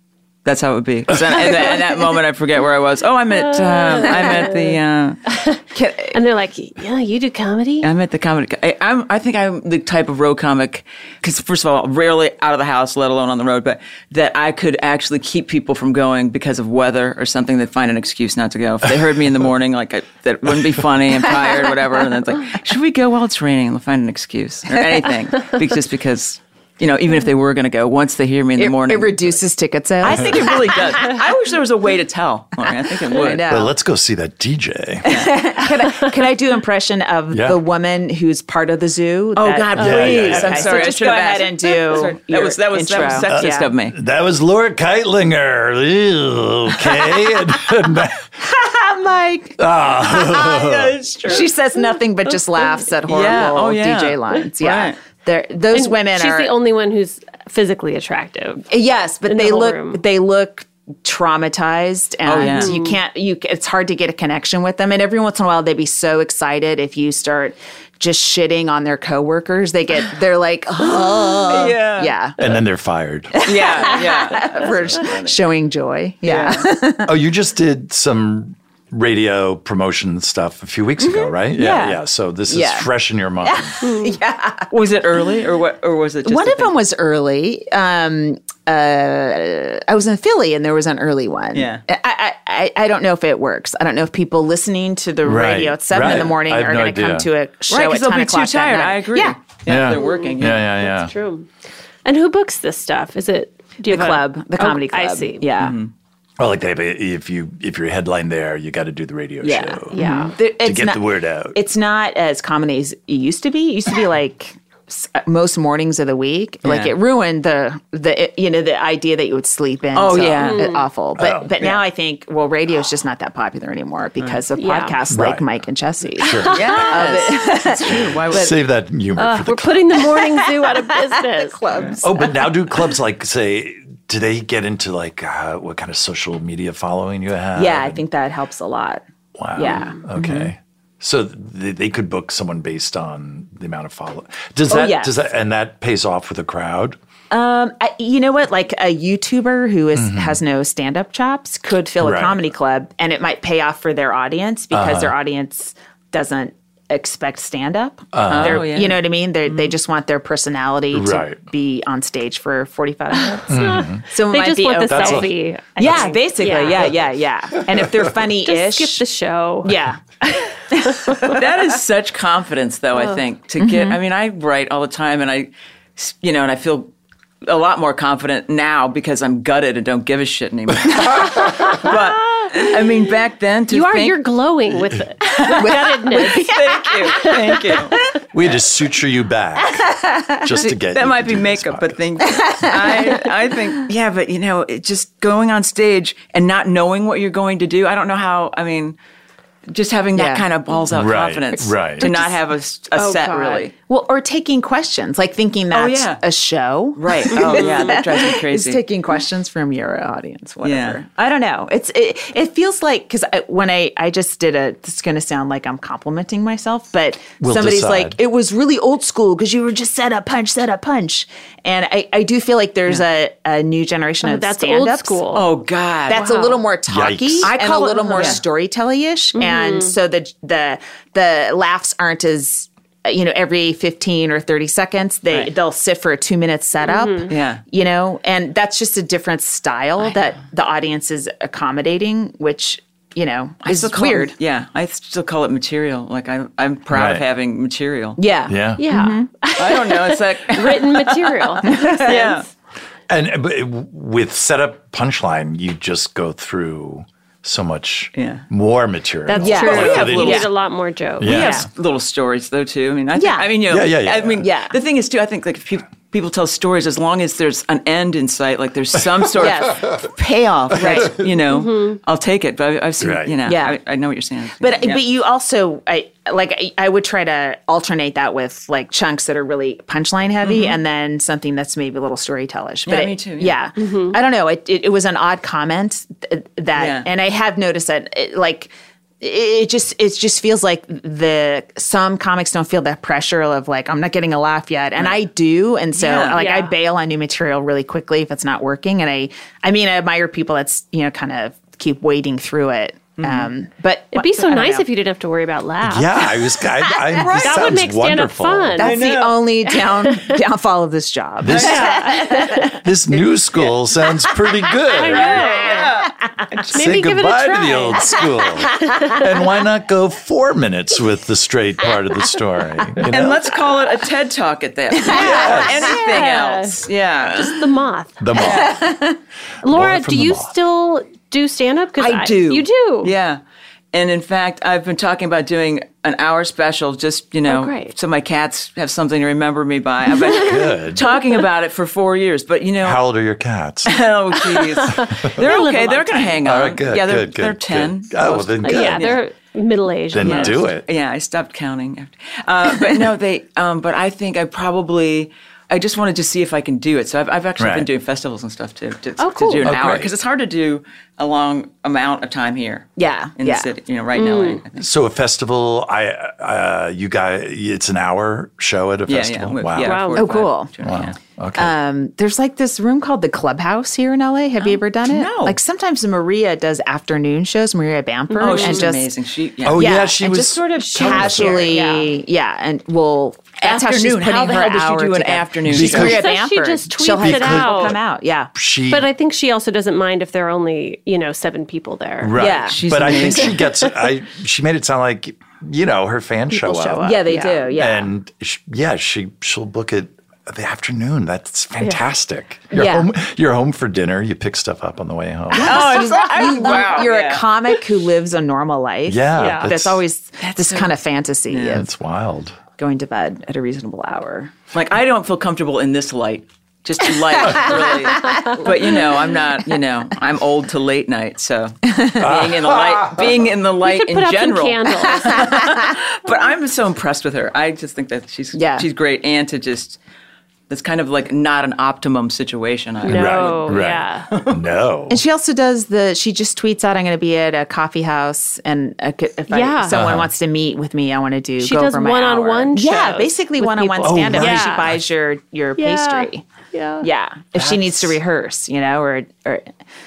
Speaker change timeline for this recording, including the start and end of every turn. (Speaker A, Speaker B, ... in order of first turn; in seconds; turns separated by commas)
Speaker A: 0.5-5.2, Speaker B: 3.6-4.5, Speaker C: 4.0-4.5, Speaker B: 5.3-7.9, Speaker C: 5.7-6.2, Speaker A: 7.8-29.4, Speaker C: 28.6-31.2, Speaker A: 30.0-33.5, Speaker C: 33.1-33.7, Speaker D: 33.5-35.1, Speaker A: 35.1-35.4, Speaker C: 35.1-43.7, Speaker D: 37.3-37.6, Speaker A: 39.4-44.0, Speaker D: 39.8-40.9, Speaker D: 43.2-48.3, Speaker C: 48.4-56.5, Speaker D: 49.6-51.0, Speaker A: 53.1-55.0, Speaker B: 55.7-58.7, Speaker C: 58.7-72.4, Speaker B: 59.3-60.0, Speaker A: 62.2-62.7, Speaker B: 62.4-63.0, Speaker A: 70.8-72.2, Speaker D: 72.4-73.7, Speaker C: 73.3-77.1, Speaker A: 73.4-75.4, Speaker A: 76.2-76.7, Speaker D: 77.1-83.8, Speaker C: 81.0-82.9, Speaker C: 83.4-84.7, Speaker B: 83.8-84.2, Speaker A: 84.7-86.8, Speaker C: 86.2-99.4, Speaker A: 91.5-91.8, Speaker D: 95.2-97.3, Speaker A: 96.0-96.3, Speaker A: 97.7-100.7, Speaker D: 99.7-101.1, Speaker B: 99.9-101.5, Speaker B: 102.0-105.5, Speaker C: 103.9-105.8, Speaker A: 105.6-105.9, Speaker D: 106.4-111.6, Speaker C: 109.4-128.6, Speaker B: 109.9-110.3, Speaker A: 116.6-116.9, Speaker A: 120.0-120.7, Speaker B: 120.4-120.8, Speaker D: 121.2-121.5, Speaker B: 124.6-125.0, Speaker D: 125.1-125.5, Speaker D: 126.2-126.9, Speaker A: 126.5-128.5, Speaker D: 128.3-130.0, Speaker B: 129.2-131.6, Speaker C: 130.1-132.5, Speaker A: 131.7-132.0, Speaker D: 132.0-138.0, Speaker C: 137.6-139.0, Speaker D: 139.4-147.0, Speaker C: 139.6-140.5, Speaker C: 144.7-145.1, Speaker C: 147.3-169.0, Speaker D: 149.9-150.4, Speaker D: 152.0-152.4, Speaker D: 154.7-155.1, Speaker D: 158.1-158.7, Speaker A: 158.3-159.0, Speaker D: 160.9-161.4, Speaker B: 163.2-166.9, Speaker D: 163.5-164.1, Speaker D: 164.9-166.2, Speaker D: 167.7-168.0, Speaker B: 168.4-169.7, Speaker C: 169.6-170.0, Speaker B: 170.3-171.3, Speaker C: 170.7-171.4, Speaker A: 171.3-176.9, Speaker C: 173.6-174.0, Speaker A: 177.4-184.2, Speaker B: 183.7-186.5, Speaker C: 185.3-188.1, Speaker A: 185.4-188.0, Speaker B: 187.1-187.5, Speaker D: 188.3-192.2, Speaker C: 189.6-190.5, Speaker A: 190.7-199.0, Speaker C: 192.4-193.3, Speaker A: 199.7-203.7, Speaker C: 200.2-200.5, Speaker D: 200.9-202.1, Speaker C: 202.0-202.4, Speaker C: 203.0-225.3, Speaker A: 205.7-206.2, Speaker A: 207.0-208.8, Speaker A: 210.6-211.0, Speaker D: 217.4-218.2, Speaker B: 224.2-225.5, Speaker A: 225.3-226.3, Speaker C: 226.1-244.3, Speaker B: 226.1-226.6, Speaker D: 226.9-227.5, Speaker A: 227.4-228.4, Speaker B: 229.3-229.9, Speaker B: 236.8-237.3, Speaker A: 237.3-237.6, Speaker A: 243.7-248.2, Speaker D: 246.9-247.2, Speaker C: 248.2-249.3, Speaker D: 248.5-248.8, Speaker B: 248.8-252.4, Speaker A: 249.6-252.5, Speaker C: 251.6-252.2, Speaker D: 253.1-260.5, Speaker A: 258.1-258.4, Speaker B: 259.3-261.6, Speaker C: 259.3-260.5, Speaker A: 259.6-260.4, Speaker D: 261.2-261.7, Speaker A: 261.2-275.0, Speaker C: 261.4-261.6, Speaker C: 263.1-263.6, Speaker D: 263.7-264.5, Speaker C: 264.4-264.8, Speaker C: 269.3-270.0, Speaker C: 270.8-271.2, Speaker B: 271.5-272.0, Speaker D: 273.0-273.4, Speaker C: 273.4-273.8, Speaker C: 274.6-304.9, Speaker A: 280.4-280.8, Speaker A: 282.9-283.6, Speaker B: 283.8-284.2, Speaker A: 286.8-287.1, Speaker A: 295.9-296.4, Speaker B: 296.4-296.7, Speaker A: 303.2-303.5, Speaker B: 304.1-306.4, Speaker D: 305.8-308.8, Speaker C: 306.9-307.5, Speaker B: 307.3-308.9, Speaker C: 308.8-312.8, Speaker A: 308.8-309.5, Speaker B: 309.9-310.4, Speaker D: 311.4-311.9, Speaker A: 311.5-311.9, Speaker B: 311.6-312.8, Speaker D: 312.7-315.4, Speaker B: 314.9-315.9, Speaker A: 315.1-316.6, Speaker C: 315.3-316.1, Speaker B: 316.7-318.2, Speaker D: 316.7-323.6, Speaker C: 318.8-319.2, Speaker B: 318.9-319.2, Speaker A: 323.0-327.6, Speaker C: 324.9-326.0, Speaker D: 325.1-325.9, Speaker B: 325.3-328.2, Speaker D: 328.2-328.9, Speaker A: 328.4-328.7, Speaker C: 328.4-329.2, Speaker B: 329.6-333.1, Speaker D: 329.6-330.6, Speaker A: 332.0-333.4, Speaker A: 333.9-343.0, Speaker B: 337.5-337.9, Speaker D: 340.2-341.1, Speaker D: 342.8-344.0, Speaker A: 343.9-349.2, Speaker B: 344.8-346.3, Speaker D: 345.1-345.5, Speaker D: 346.4-349.2, Speaker B: 348.6-350.6, Speaker D: 350.1-350.9, Speaker A: 350.2-364.9, Speaker D: 357.6-357.9, Speaker B: 359.2-359.8, Speaker D: 359.6-360.1, Speaker C: 363.0-363.7, Speaker B: 364.1-364.6, Speaker D: 364.8-370.1, Speaker A: 369.1-371.2, Speaker B: 369.8-370.2, Speaker C: 370.2-370.7, Speaker D: 370.8-371.8, Speaker C: 371.6-379.1, Speaker A: 374.6-375.6, Speaker B: 378.3-378.9, Speaker A: 378.4-380.0, Speaker D: 379.6-381.8, Speaker C: 379.7-388.5, Speaker B: 380.8-382.1, Speaker A: 383.6-386.3, Speaker D: 385.7-386.3, Speaker B: 385.9-388.0, Speaker D: 387.1-388.0, Speaker D: 388.5-389.1, Speaker B: 388.9-392.4, Speaker D: 392.2-406.1, Speaker C: 392.4-393.5, Speaker A: 392.4-393.6, Speaker B: 396.5-397.6, Speaker C: 397.0-398.1, Speaker C: 402.7-403.1, Speaker C: 405.5-411.9, Speaker A: 405.6-407.5, Speaker D: 409.1-410.0, Speaker B: 409.4-409.7, Speaker A: 410.4-410.9, Speaker A: 411.5-411.9, Speaker D: 411.7-412.6, Speaker C: 412.8-414.6, Speaker A: 414.7-430.0, Speaker C: 417.4-419.0, Speaker C: 421.9-422.2, Speaker D: 422.2-423.5, Speaker B: 423.8-425.5, Speaker C: 428.5-428.9, Speaker A: 430.7-434.6, Speaker D: 433.0-435.2, Speaker B: 433.1-434.3, Speaker C: 435.1-446.4, Speaker B: 439.5-440.0, Speaker D: 439.9-440.3, Speaker B: 441.6-444.9, Speaker D: 444.0-445.0, Speaker B: 445.8-447.1, Speaker C: 447.0-449.7, Speaker D: 447.6-448.1